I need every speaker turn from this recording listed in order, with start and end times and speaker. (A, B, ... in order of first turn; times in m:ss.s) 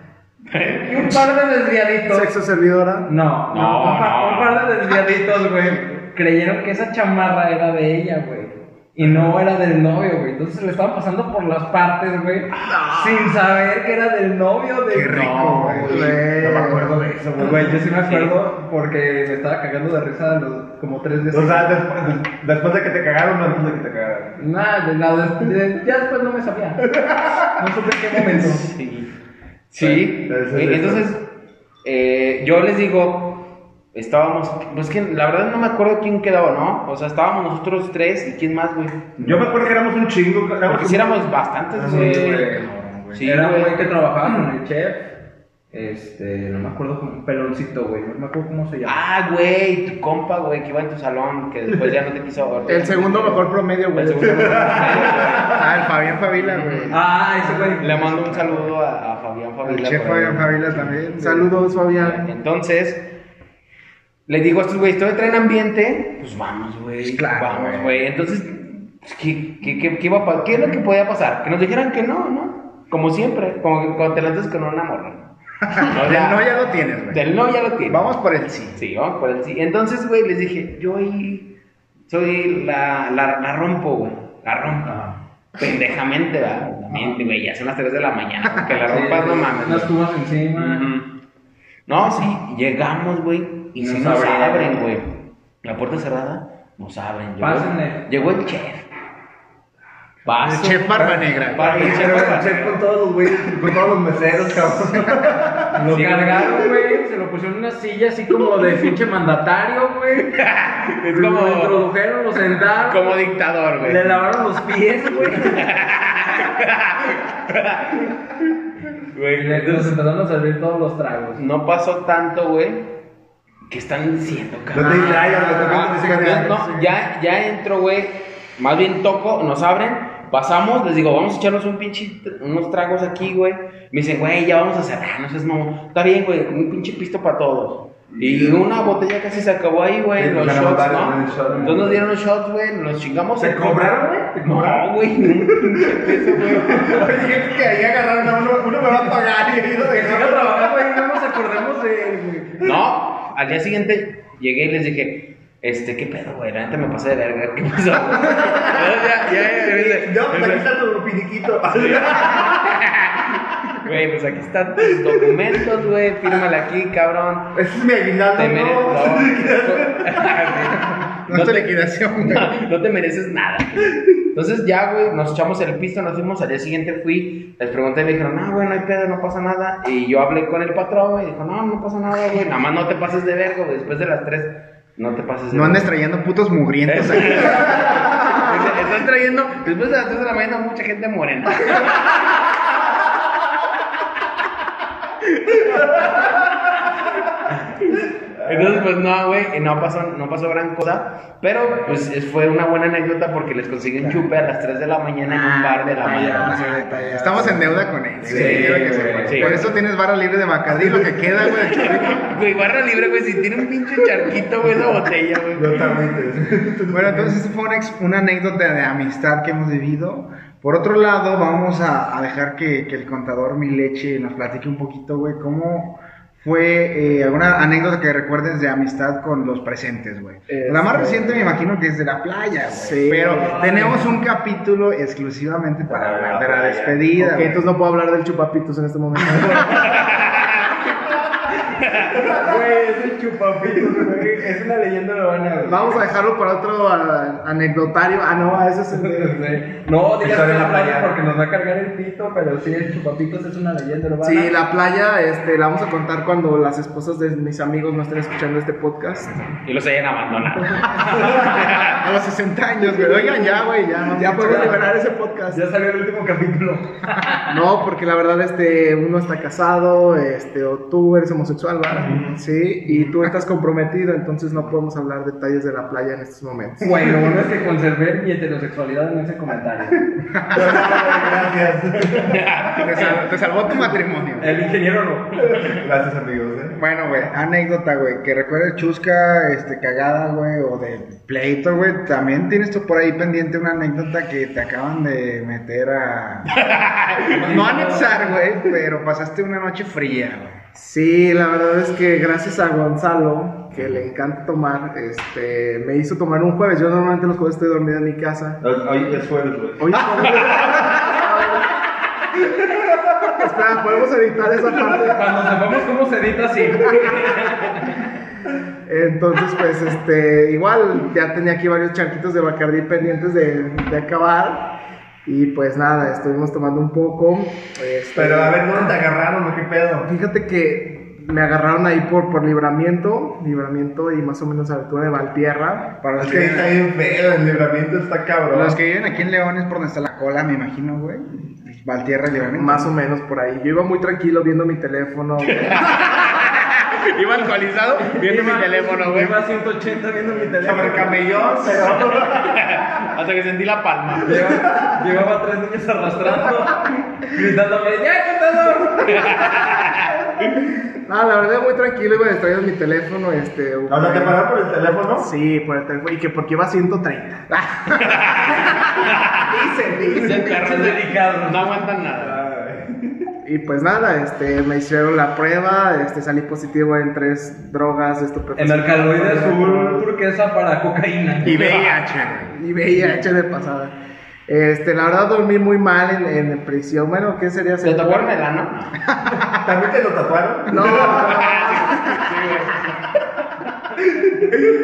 0:00.5-0:01.2 A
0:00.8-0:02.3 B
0:02.1-0:03.1 C
0:03.0-0:15.6 B
0:03.5-0:04.8 A
0:12.5-0:13.3 A
0:14.9-0:16.2 D
0:15.0-0:16.2 A
0:15.8-0:17.0 C
0:15.9-0:17.8 E
0:17.4-0:21.8 B
0:18.1-0:18.3 A
0:21.3-0:24.4 E
0:24.4-0:26.9 B
0:26.8-0:27.6 E
0:27.5-0:28.7 B
0:28.4-0:29.1 A
0:29.7-0:31.3 A
0:29.8-0:31.1 E
0:31.8-0:39.2 A
0:39.2-0:43.2 E
0:40.6-0:44.3 A
0:41.9-0:42.3 B
0:43.2-0:45.1 B
0:45.7-0:49.0 B
0:48.8-0:55.8 A
0:52.7-0:55.3 C
0:54.5-0:55.6 E
0:55.5-0:57.0 D
0:56.3-0:57.0 A
0:56.9-0:58.2 B
0:57.8-1:00.9 A
0:59.6-1:01.5 D
1:01.2-1:02.3 C
1:01.8-1:03.0 A
1:04.3-1:16.5 A
1:07.0-1:08.0 D
1:15.7-1:17.2 D
1:17.1-1:18.2 A
1:17.9-1:18.8 D
1:18.7-1:21.5 A
1:22.1-1:25.0 A
1:24.8-1:25.1 B
1:25.6-1:29.9 A
1:28.8-1:30.9 B
1:30.5-1:31.1 A
1:31.9-1:38.9 A
1:33.8-1:34.8 B
1:37.4-1:38.0 B
1:40.2-1:42.8 A
1:40.4-1:42.2 D
1:41.0-1:45.8 E
1:45.7-1:50.3 B
1:45.9-1:46.6 A
1:50.2-1:51.8 A
1:51.1-1:53.1 B
1:52.6-1:54.2 A
1:53.8-1:55.7 B
1:55.3-1:58.2 A
1:59.1-2:00.0 A
1:59.3-2:01.4 B
2:01.4-2:02.9 A
2:03.7-2:27.2 A
2:04.7-2:06.6 E
2:05.1-2:06.5 C
2:18.1-2:18.6 E
2:20.2-2:22.0 E
2:21.4-2:21.9 B
2:23.4-2:30.9 E
2:29.8-2:32.7 B
2:32.6-2:40.6 A
2:38.4-2:38.8 E
2:39.4-2:42.7 E
2:41.7-2:47.5 A
2:47.5-2:50.5 E
2:48.3-3:05.9 A
2:51.3-2:52.6 D
3:05.5-3:07.8 D
3:06.8-3:12.2 A
3:15.2-3:16.2 A
3:17.5-3:26.8 A
3:18.4-3:18.8 E
3:25.2-3:27.9 C
3:27.1-3:32.3 D
3:28.2-3:29.4 E
3:28.3-3:29.4 B
3:29.3-3:29.7 A
3:31.4-3:36.0 A
3:35.6-3:37.4 E
3:36.9-3:57.7 D
3:50.5-3:51.6 C
3:52.7-3:53.8 C
3:55.8-3:57.1 E
3:57.1-4:00.0 C
3:59.7-4:00.8 A
4:01.7-4:02.1 A
4:02.1-4:02.5 E
4:02.3-4:06.0 B
4:05.6-4:09.5 C
4:08.9-4:14.5 B
4:10.2-4:11.2 E
4:14.2-4:19.5 C
4:19.6-4:22.0 A
4:21.1-4:24.9 D
4:24.1-4:25.6 C
4:24.3-4:24.9 B
4:25.5-4:27.5 B
4:27.5-4:37.1 C
4:31.9-4:32.4 E
4:36.8-4:40.1 B
4:40.4-4:40.8 D
4:40.5-4:42.5 E
4:42.3-4:43.2 A
4:42.8-4:44.5 D
4:44.4-4:45.7 B
4:45.4-4:46.8 E
4:46.8-4:56.5 D
4:56.5-4:57.6 A
4:57.3-4:58.4 B
4:57.4-5:00.6 D
5:00.7-5:08.6 C
5:08.6-5:11.1 E
5:09.8-5:11.7 C
5:13.3-5:15.2 C
5:15.0-5:17.8 B
5:18.8-5:24.7 C
5:25.2-5:28.9 C
5:28.1-5:30.1 E
5:30.0-5:36.0 C
5:36.0-5:36.8 D
5:36.2-5:38.8 E
5:38.5-5:42.9 D
5:42.6-5:45.9 C
5:45.4-5:49.4 A
5:48.0-5:51.7 B
5:50.5-5:52.8 E
5:52.1-5:54.4 A
5:54.2-5:59.4 B
5:54.4-5:55.0 E
5:59.1-6:00.1 A
6:01.0-6:04.4 C
6:03.9-6:05.3 E
6:05.1-6:07.5 C
6:07.9-6:12.4 A
6:10.2-6:11.8 B
6:12.2-6:13.3 E
6:13.4-6:20.1 C
6:18.6-6:21.7 B
6:21.4-6:22.5 D
6:21.5-6:22.0 A
6:22.5-6:23.9 C
6:24.5-6:28.3 C
6:27.8-6:29.1 A
6:29.2-6:32.1 E
6:30.7-6:32.1 C
6:31.0-6:33.1 A
6:34.0-6:34.5 E